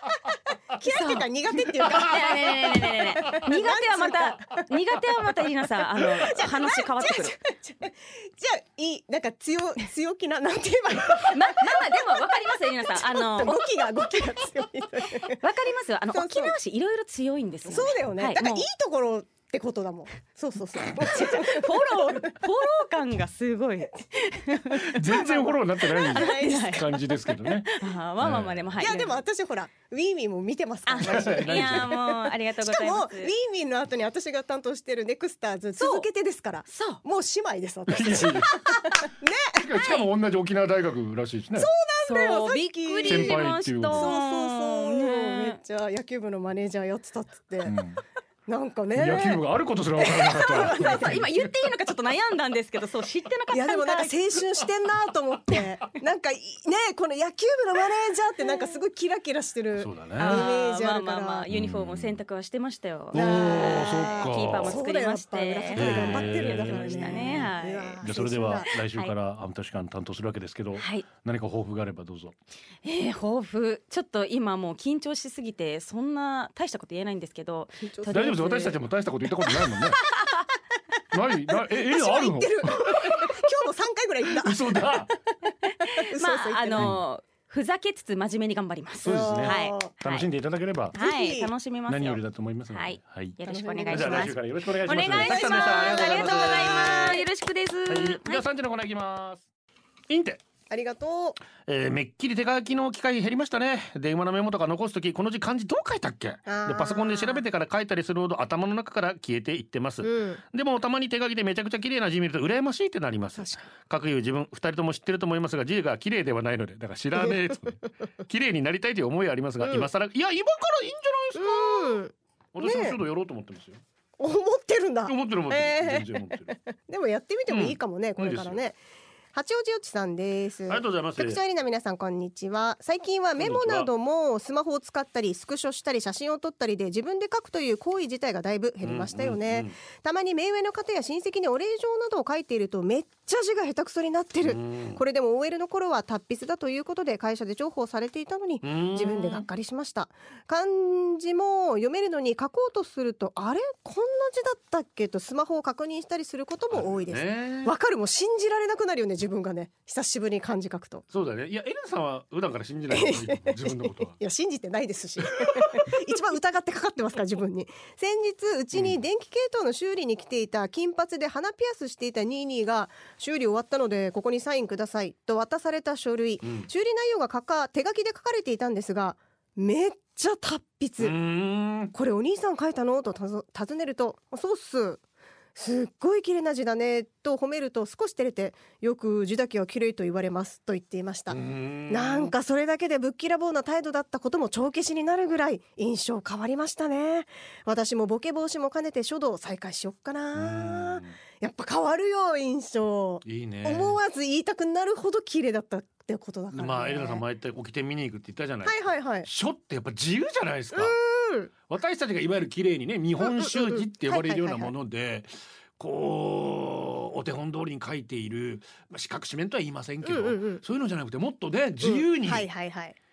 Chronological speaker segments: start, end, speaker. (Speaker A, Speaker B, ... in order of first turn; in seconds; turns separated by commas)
Speaker A: 0.7-4.6, Speaker B: 0.8-1.3, Speaker C: 1.8-2.3, Speaker B: 1.9-7.4, Speaker A: 6.0-12.0, Speaker B: 11.2-13.6, Speaker A: 12.9-15.4, Speaker B: 15.2-18.7, Speaker A: 16.1-16.6, Speaker A: 17.7-22.1, Speaker B: 21.0-25.0, Speaker C: 24.7-28.8, Speaker A: 24.9-26.8, Speaker B: 26.1-26.9, Speaker B: 27.7-29.2, Speaker A: 28.8-40.0, Speaker B: 30.9-33.3, Speaker C: 31.0-31.9, Speaker B: 35.8-36.1, Speaker B: 36.7-37.0, Speaker C: 37.9-39.0, Speaker C: 39.5-41.7, Speaker A: 41.5-47.8, Speaker B: 42.0-45.6, Speaker C: 43.0-44.1, Speaker C: 47.6-48.0, Speaker A: 48.5-49.4, Speaker C: 48.9-51.5, Speaker A: 50.0-51.2, Speaker B: 50.5-54.2, Speaker A: 53.5-61.5, Speaker C: 59.8-60.5, Speaker B: 60.2-68.0, Speaker C: 61.5-62.2, Speaker C: 63.1-64.8, Speaker A: 63.1-68.7, Speaker C: 65.8-72.3, Speaker B: 68.7-69.1, Speaker B: 70.8-71.0, Speaker B: 72.8-78.7, Speaker A: 77.8-78.7, Speaker C: 78.1-80.0, Speaker C: 81.1-83.4, Speaker A: 81.5-86.9, Speaker C: 84.2-85.1, Speaker B: 85.9-90.2, Speaker C: 89.0-91.0, Speaker A: 89.0-89.9, Speaker B: 90.9-98.4, Speaker A: 91.0-91.5, Speaker C: 91.9-93.3, Speaker A: 93.4-94.3, Speaker C: 93.9-97.2, Speaker A: 94.9-97.2, Speaker C: 97.9-99.4, Speaker C: 100.1-100.4, Speaker A: 100.7-101.4, Speaker C: 101.6-122.0, Speaker A: 106.5-107.4, Speaker A: 110.0-110.4, Speaker A: 113.4-113.7, Speaker A: 119.6-119.9, Speaker A: 121.3-123.0, Speaker C: 122.5-123.8, Speaker A: 124.2-128.8, Speaker C: 125.1-126.5, Speaker C: 127.5-128.6, Speaker A: 129.3-161.0, Speaker C: 130.7-131.4, Speaker C: 133.4-133.9, Speaker C: 138.8-139.8, Speaker C: 144.4-145.0, Speaker C: 148.6-149.4, Speaker C: 156.7-157.7, Speaker C: 161.1-164.2, Speaker A: 162.9-181.1, Speaker C: 165.4-165.9, Speaker C: 168.7-169.0, Speaker C: 176.4-176.7, Speaker C: 181.0-181.9, Speaker A: 181.9-185.0, Speaker A: 185.5-207.2, Speaker C: 191.3-192.3, Speaker C: 200.3-201.2, Speaker C: 203.2-204.0, Speaker C: 206.5-211.0, Speaker A: 208.6-209.3, Speaker A: 210.7-211.5, Speaker C: 211.7-222.5, Speaker A: 213.2-214.7, Speaker A: 220.0-220.6, Speaker A: 221.8-223.0